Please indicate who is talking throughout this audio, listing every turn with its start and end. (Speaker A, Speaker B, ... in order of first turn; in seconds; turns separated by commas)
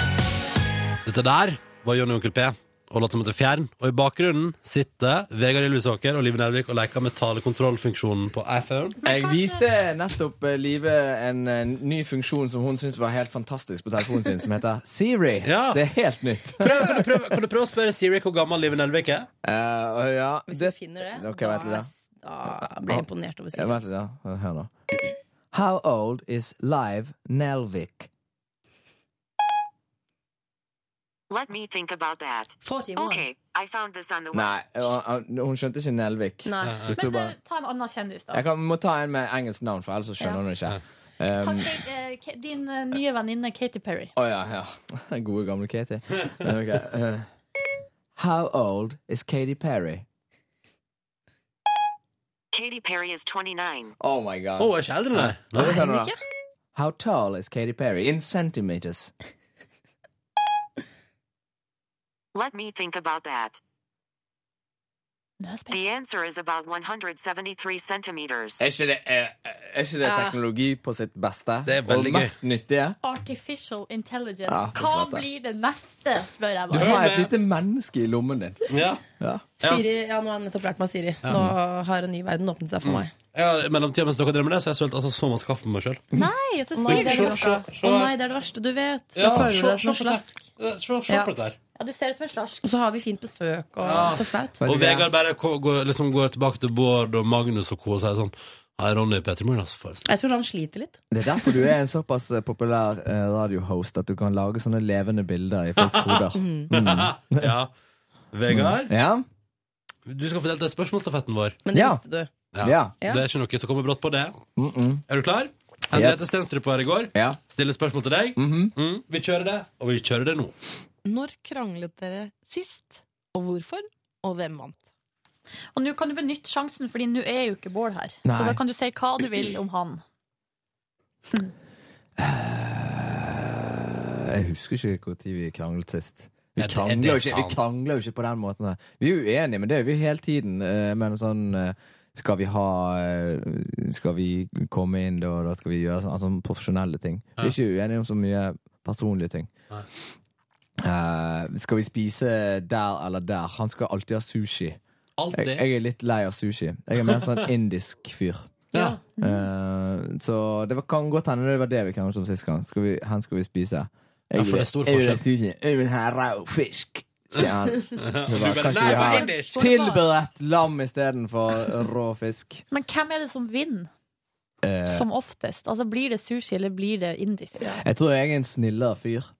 Speaker A: 1.1-9.0, Speaker B: 9.0-17.1, Speaker C: 9.1-9.6, Speaker A: 15.4-15.8, Speaker A: 16.6-19.3, Speaker B: 19.4-21.9, Speaker D: 20.5-23.9, Speaker B: 22.6-24.7, Speaker B: 25.5-28.1, Speaker E: 31.3-34.9, Speaker D: 32.6-33.2, Speaker B: 34.3-37.3, Speaker D: 36.4-36.8, Speaker A: 36.6-36.9, Speaker C: 36.9-38.4, Speaker B: 38.3-41.7, Speaker C: 41.4-44.1, Speaker B: 44.2-47.3, Speaker B: 48.2-50.0, Speaker E: 52.5-53.9, Speaker B: 54.0-56.1, Speaker A: 54.6-55.8, Speaker D: 55.6-56.2, Speaker B: 56.8-59.1, Speaker E: 62.3-63.6, Speaker C: 65.4-65.8, Speaker E: 65.7-68.6, Speaker B: 68.6-73.0, Speaker D: 70.0-70.4, Speaker A: 71.7-72.4, Speaker C: 73.0-77.0, Speaker B: 74.5-75.3, Speaker B: 76.7-79.5, Speaker A: 76.7-77.3, Speaker A: 78.7-79.0, Speaker A: 79.6-79.9, Speaker D: 79.6-83.1, Speaker A: 82.8-86.0, Speaker C: 86.1-87.5, Speaker D: 86.8-90.3, Speaker A: 86.9-88.1, Speaker A: 89.2-91.6, Speaker C: 91.8-92.7, Speaker D: 92.6-94.6, Speaker A: 93.8-100.1, Speaker B: 94.6-95.1, Speaker D: 100.1-101.0, Speaker B: 101.1-107.5, Speaker A: 105.8-107.7, Speaker D: 106.3-106.7, Speaker A: 108.3-108.9, Speaker B: 108.5-109.2, Speaker A: 110.1-111.6, Speaker D: 111.7-112.3, Speaker B: 111.7-112.0, Speaker A: 112.5-114.4, Speaker B: 112.6-113.0, Speaker B: 114.6-115.0, Speaker A: 115.1-120.5, Speaker B: 115.9-116.2, Speaker B: 117.1-117.4, Speaker B: 118.4-118.7, Speaker F: 121.0-124.8, Speaker C: 125.8-130.0, Speaker B: 128.2-128.6, Speaker B: 132.2-149.5, Speaker A: 136.6-137.6, Speaker B: 150.8-154.8, Speaker A: 155.2-155.7, Speaker B: 155.3-158.6, Speaker D: 158.7-159.0, Speaker B: 159.2-172.6, Speaker C: 159.2-159.5, Speaker A: 164.3-165.2, Speaker A: 168.0-169.7, Speaker C: 168.8-170.0, Speaker C: 172.7-173.9, Speaker B: 174.6-175.1, Speaker C: 174.9-177.6, Speaker B: 177.8-179.3